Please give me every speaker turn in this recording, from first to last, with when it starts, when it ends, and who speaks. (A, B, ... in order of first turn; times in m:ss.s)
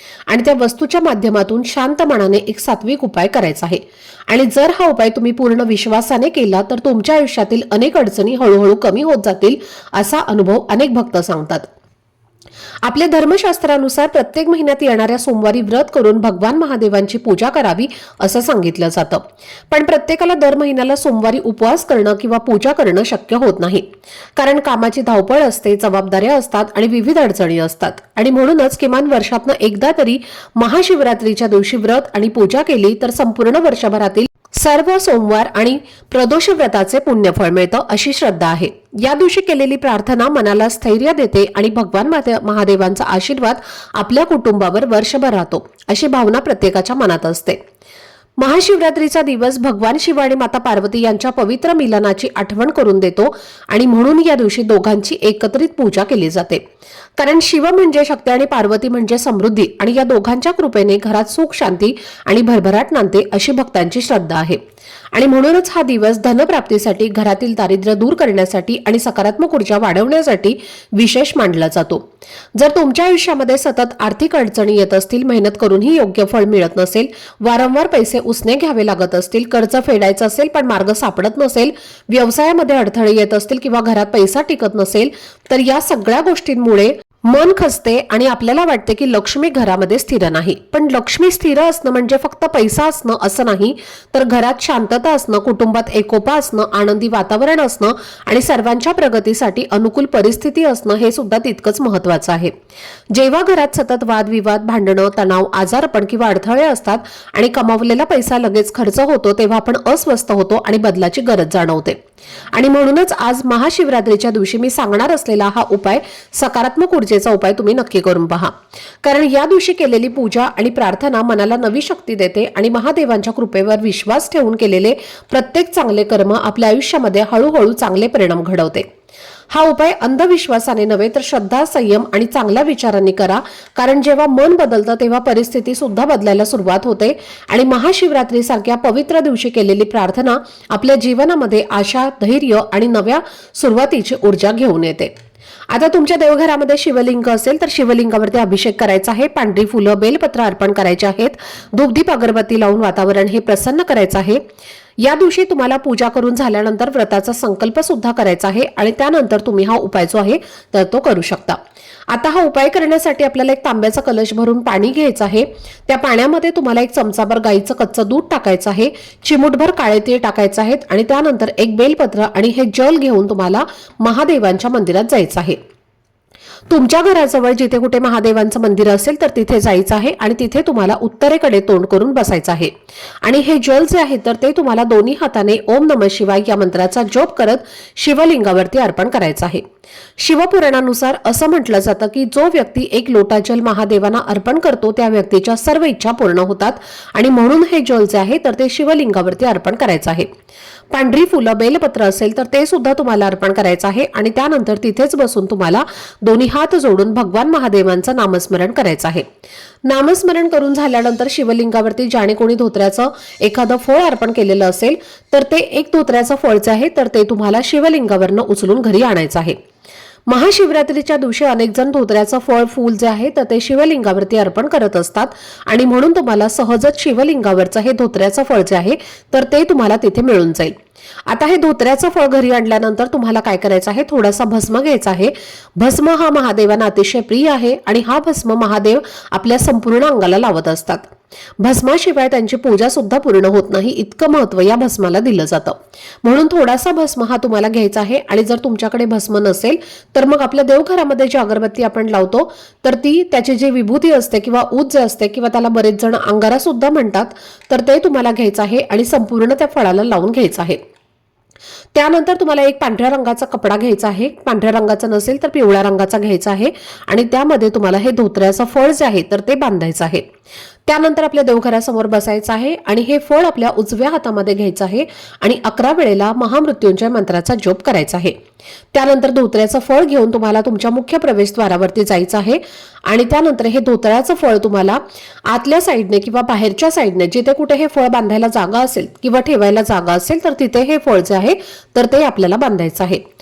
0:00.3-0:11.7 A
0:12.8-0:47.6 A
0:48.4-0:56.6 A
0:57.2-1:04.6 A
1:05.1-1:42.5 A
1:43.1-1:52.0 A
1:52.5-2:08.9 A
2:09.5-2:25.1 A
2:25.7-2:34.4 A
2:35.0-2:55.6 A
2:56.7-3:09.6 A
3:10.2-3:20.3 A
3:20.9-3:29.3 A
3:29.8-3:39.6 A
3:40.3-3:50.7 A
3:51.3-4:01.1 A
4:01.6-4:20.8 A
4:21.9-4:30.2 A
4:30.8-4:38.4 A
4:38.9-4:53.2 A